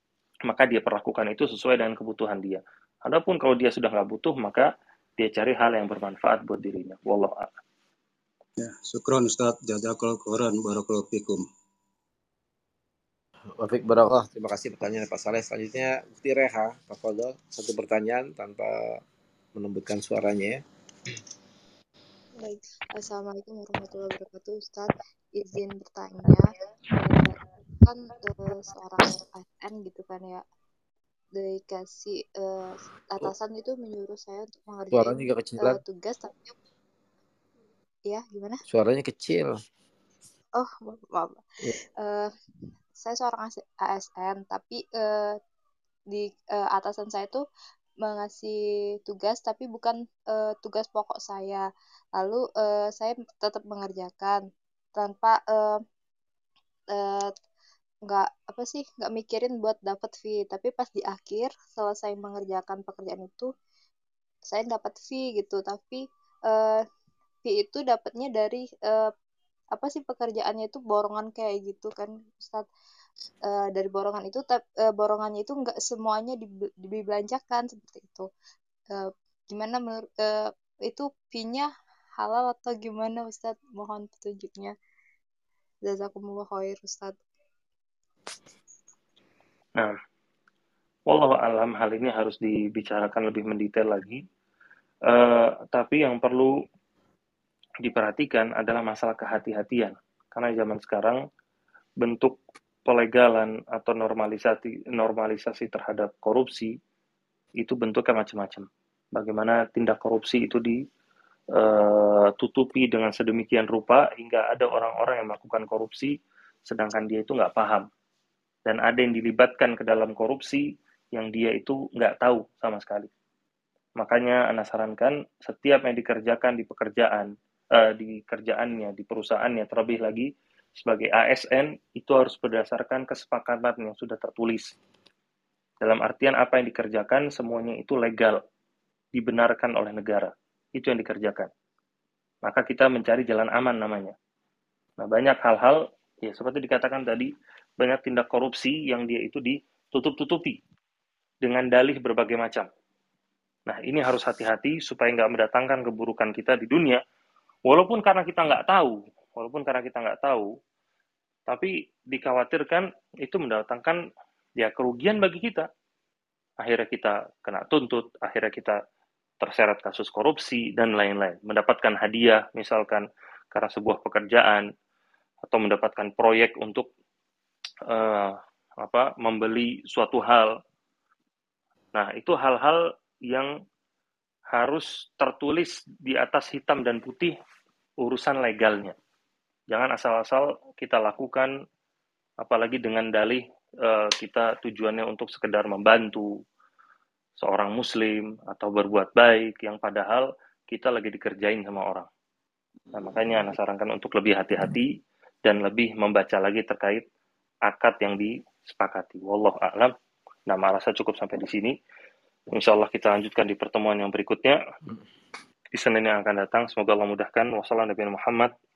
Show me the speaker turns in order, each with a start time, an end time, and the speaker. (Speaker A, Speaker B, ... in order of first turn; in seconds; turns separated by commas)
Speaker A: 0.5-7.5, Speaker B: 8.6-11.5, Speaker C: 13.6-19.0, Speaker C: 19.5-20.6, Speaker D: 22.4-30.4, Speaker D: 31.4-36.6, Speaker C: 34.9-35.8, Speaker D: 38.1-38.6, Speaker C: 38.7-39.6, Speaker D: 40.6-41.5, Speaker D: 42.0-42.3, Speaker D: 43.0-45.4, Speaker D: 46.1-47.4, Speaker D: 48.0-51.7, Speaker D: 52.2-54.4, Speaker D: 55.0-55.8, Speaker D: 56.9-57.3, Speaker D: 58.1-63.5, Speaker D: 64.5-66.8, Speaker D: 67.4-69.1, Speaker D: 69.8-72.7, Speaker D: 73.5-78.3, Speaker D: 78.9-84.7, Speaker D: 85.8-87.2, Speaker A: 91.1-94.2, Speaker A: 95.1-96.5, Speaker A: 97.8-101.2, Speaker A: 102.0-106.8, Speaker A: 107.6-110.8, Speaker A: 111.5-117.9, Speaker A: 118.7-123.1, Speaker A: 124.0-134.8, Speaker A: 135.8-138.4, Speaker A: 139.1-141.5, Speaker A: 142.4-144.1, Speaker A: 145.0-150.6, Speaker A: 151.4-152.7, Speaker A: 153.7-157.0, Speaker A: 157.7-160.6, Speaker A: 161.5-164.0, Speaker A: 164.6-165.7, Speaker A: 166.6-168.8, Speaker A: 169.4-174.7, Speaker A: 175.4-176.9, Speaker A: 177.9-180.5, Speaker A: 181.9-183.5, Speaker A: 184.5-187.3, Speaker A: 188.0-188.9, Speaker A: 189.7-191.5, Speaker A: 192.4-196.3, Speaker A: 197.4-202.1, Speaker A: 202.9-204.9, Speaker A: 205.4-207.1, Speaker A: 207.7-209.9, Speaker A: 210.5-211.8, Speaker A: 212.5-214.6, Speaker A: 215.7-218.5